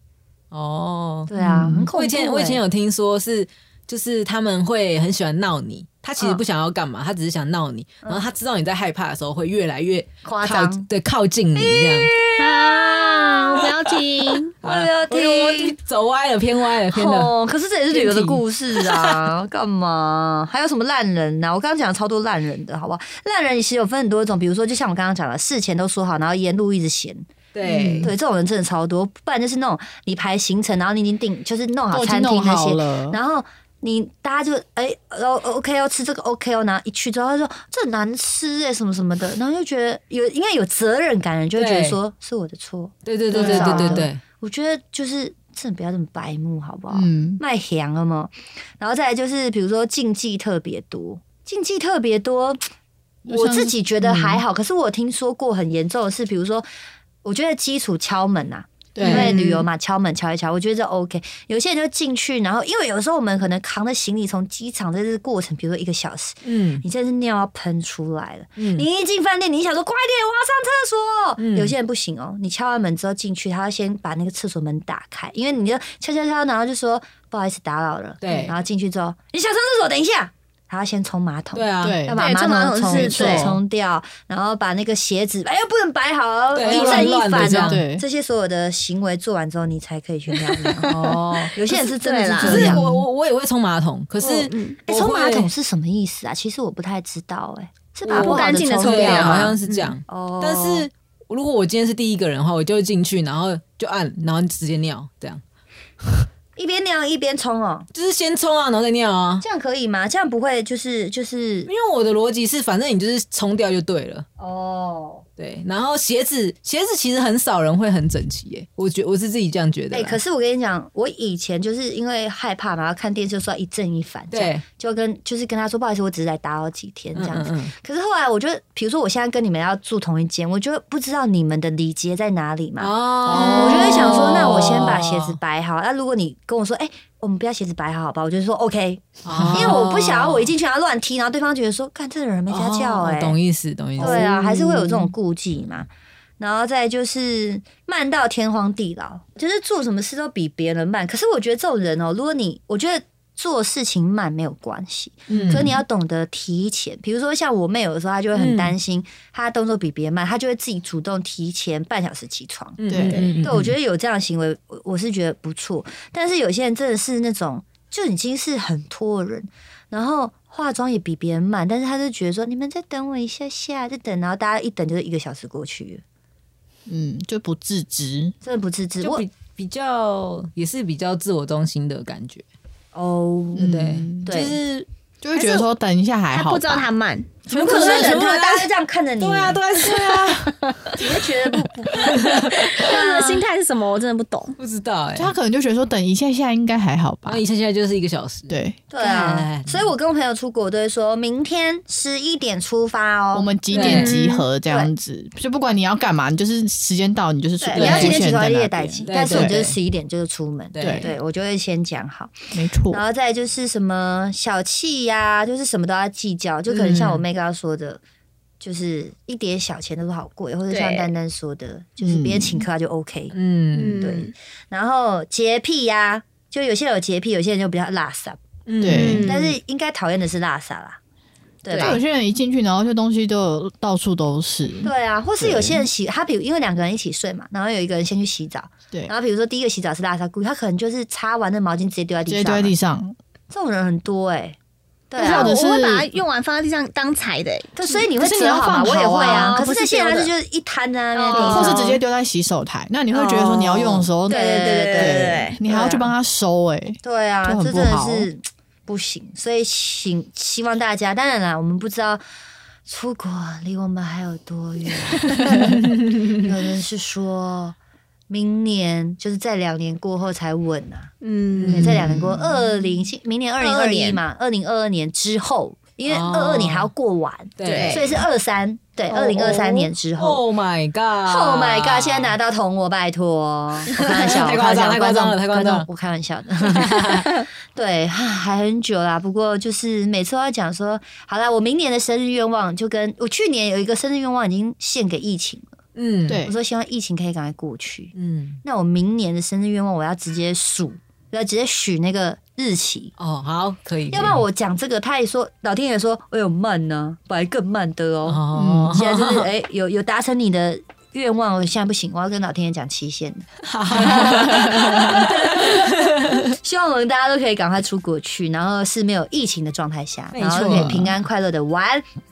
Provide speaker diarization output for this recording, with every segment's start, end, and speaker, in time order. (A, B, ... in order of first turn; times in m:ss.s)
0:00.5-0:01.3 A
0:01.3-0:02.6 B
0:01.4-0:01.9 C
0:01.9-0:12.1 A
0:10.2-0:10.9 B
0:11.6-0:14.0 B
0:12.4-0:14.6 D
0:14.6-0:15.8 B
0:14.6-0:17.3 A
0:16.9-0:27.3 B
0:17.9-0:19.2 A
0:27.5-0:28.1 A
0:27.7-0:28.0 C
0:28.0-0:52.6 B
0:31.9-0:33.2 C
0:41.6-0:42.0 A
0:43.0-0:44.2 A
0:43.3-0:44.1 C
0:46.9-0:47.4 C
0:53.2-0:53.7 C
0:53.3-0:56.7 B
0:54.1-0:54.4 A
0:57.2-1:30.9 B
0:58.9-0:59.3 C
0:59.0-0:59.3 A
0:59.0-0:59.6 D
1:06.4-1:06.8 A
1:08.6-1:08.8 A
1:11.4-1:11.7 A
1:18.2-1:18.6 A
1:21.5-1:22.0 A
1:21.8-1:22.2 C
1:22.2-1:23.5 D
1:22.9-1:23.6 C
1:26.5-1:27.8 A
1:26.6-1:28.0 C
1:30.8-1:31.5 A
1:30.9-1:31.5 C
1:31.5-1:32.8 B
1:31.6-1:32.8 D
1:32.4-1:35.5 A
1:32.4-1:33.0 C
1:34.2-1:34.8 D
1:34.9-1:39.5 B
1:38.0-1:45.4 A
1:38.2-1:40.0 D
1:40.1-1:40.9 B
1:46.6-1:47.9 B
1:47.9-1:49.4 A
1:49.4-1:51.7 B
1:51.7-1:54.3 A
1:54.4-1:55.2 B
1:55.4-2:00.2 A
1:59.9-2:23.4 B
2:04.3-2:04.6 A
2:07.2-2:07.7 A
2:12.8-2:15.4 A
2:13.2-2:14.3 C
2:13.3-2:14.0 D
2:19.2-2:20.5 A
2:19.3-2:19.7 C
2:22.5-2:24.3 A
2:24.0-2:24.4 C
2:24.0-2:25.9 B
2:26.4-2:42.8 B
2:35.3-2:35.8 C
2:35.3-2:35.8 A
2:38.3-2:38.7 A
2:42.8-2:43.7 A
2:42.9-2:43.2 C
2:43.0-2:43.4 D
2:43.4-2:56.0 B
2:56.9-2:58.4 C
2:58.4-2:59.2 B
2:59.0-3:02.4 A
3:02.9-3:04.6 B
3:03.6-3:04.4 C
3:03.6-3:04.9 A
3:05.2-3:06.9 C
3:05.4-3:05.6 D
3:06.3-3:07.4 D
3:07.5-3:09.6 B
3:07.5-3:08.7 A
3:07.6-3:08.2 C
3:09.2-3:10.5 A
3:09.8-3:11.0 C
3:11.0-3:13.4 B
3:12.1-3:12.5 A
3:12.6-3:14.6 D
3:14.6-3:15.3 A
3:15.2-3:17.4 C
3:17.3-3:19.9 A
3:18.5-3:18.8 C
3:18.9-3:23.5 B
3:23.3-3:29.7 C
3:23.7-3:24.2 A
3:23.7-3:24.4 D
3:24.7-3:24.9 B
3:27.6-3:32.4 B
3:27.8-3:28.2 A
3:29.1-3:29.7 A
3:30.7-3:31.2 A
3:30.8-3:31.1 C
3:32.5-3:33.0 C
3:32.9-3:38.0 B
3:36.7-3:37.2 A
3:38.6-3:43.3 B
3:40.7-3:41.1 D
3:42.0-3:42.7 C
3:43.3-3:44.1 A
3:43.7-3:44.3 D
3:44.0-3:48.4 B
3:48.7-3:49.3 A
3:48.8-3:49.3 C
3:48.9-3:49.5 D
3:49.2-3:51.0 B
3:51.6-3:52.0 B
3:51.7-3:52.0 D
3:51.8-3:55.9 C
3:54.8-4:02.7 B
4:02.3-4:03.2 C
4:03.5-4:04.6 B
4:05.1-4:05.6 B
4:05.2-4:06.1 C
4:05.2-4:07.7 D
4:07.8-4:11.9 B
4:08.2-4:09.6 C
4:09.2-4:10.3 D
4:11.2-4:12.0 D
4:11.3-4:18.3 C
4:13.1-4:15.6 D
4:14.2-4:16.1 B
4:17.0-4:22.2 B
4:22.8-4:27.8 B
4:28.3-4:31.1 B
4:31.2-4:32.0 D
4:31.5-4:32.6 A
4:31.7-4:40.4 B
4:33.6-4:34.2 D
4:36.1-4:36.9 A
4:37.6-4:38.2 A
4:37.6-4:38.0 D
4:39.1-4:42.4 A
4:39.3-4:39.9 D
4:41.2-4:55.7 B
4:43.9-4:45.9 A
4:46.6-4:47.3 A
4:56.0-4:56.4 A
4:56.3-4:56.5 C
4:56.4-5:03.1 B
4:58.2-4:58.6 A
5:03.2-5:04.4 A
5:04.1-5:08.4 B
5:08.3-5:09.5 A
5:08.5-5:09.0 C
5:08.9-5:22.0 B
5:13.7-5:16.5 A
5:14.0-5:15.0 C
5:20.3-5:21.2 A